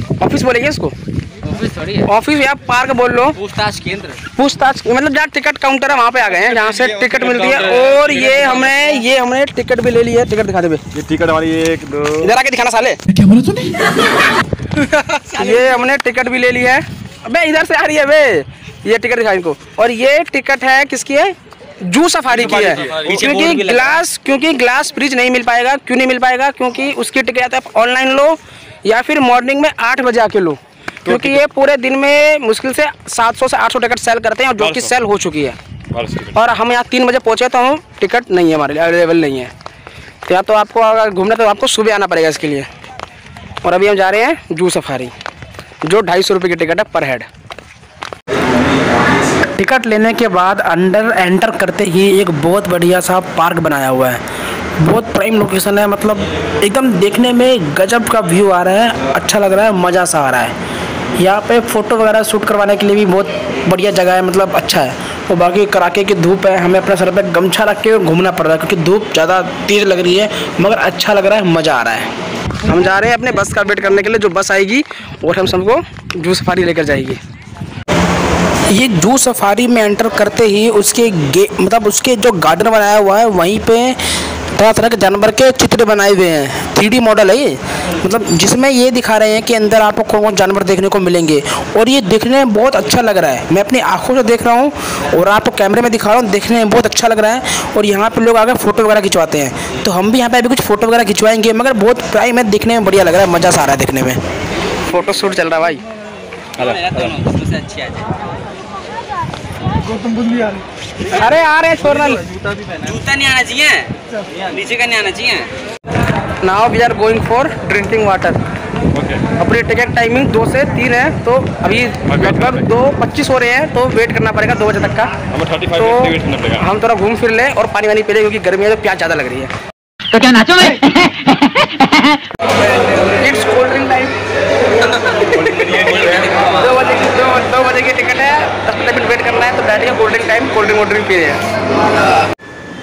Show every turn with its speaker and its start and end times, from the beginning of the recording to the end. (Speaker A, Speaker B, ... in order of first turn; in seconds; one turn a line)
Speaker A: 0.2-0.9
Speaker B: 1.4-2.0
Speaker A: 2.0-3.4
Speaker B: 3.4-4.2
Speaker A: 4.3-10.8
Speaker B: 6.6-8.7
Speaker C: 10.9-12.2
Speaker A: 12.1-13.0
Speaker A: 15.3-35.6
Speaker B: 22.3-24.0
Speaker C: 35.9-36.3
Speaker A: 36.3-39.5
Speaker A: 40.2-42.7
Speaker A: 43.6-45.1
Speaker A: 45.8-47.3
Speaker A: 49.5-54.2
Speaker A: 54.8-60.5
Speaker A: 61.1-72.1
Speaker A: 72.6-77.2
Speaker A: 78.7-104.2
Speaker A: 104.9-105.8
Speaker B: 106.6-108.1
Speaker A: 111.1-112.2
Speaker B: 112.6-115.5
Speaker A: 116.4-118.4
Speaker C: 118.9-119.3
Speaker A: 119.3-125.2
Speaker C: 122.1-122.5
Speaker C: 125.3-126.6
Speaker A: 125.7-129.5
Speaker D: 130.1-132.2
Speaker A: 132.9-134.2
Speaker A: 134.8-141.4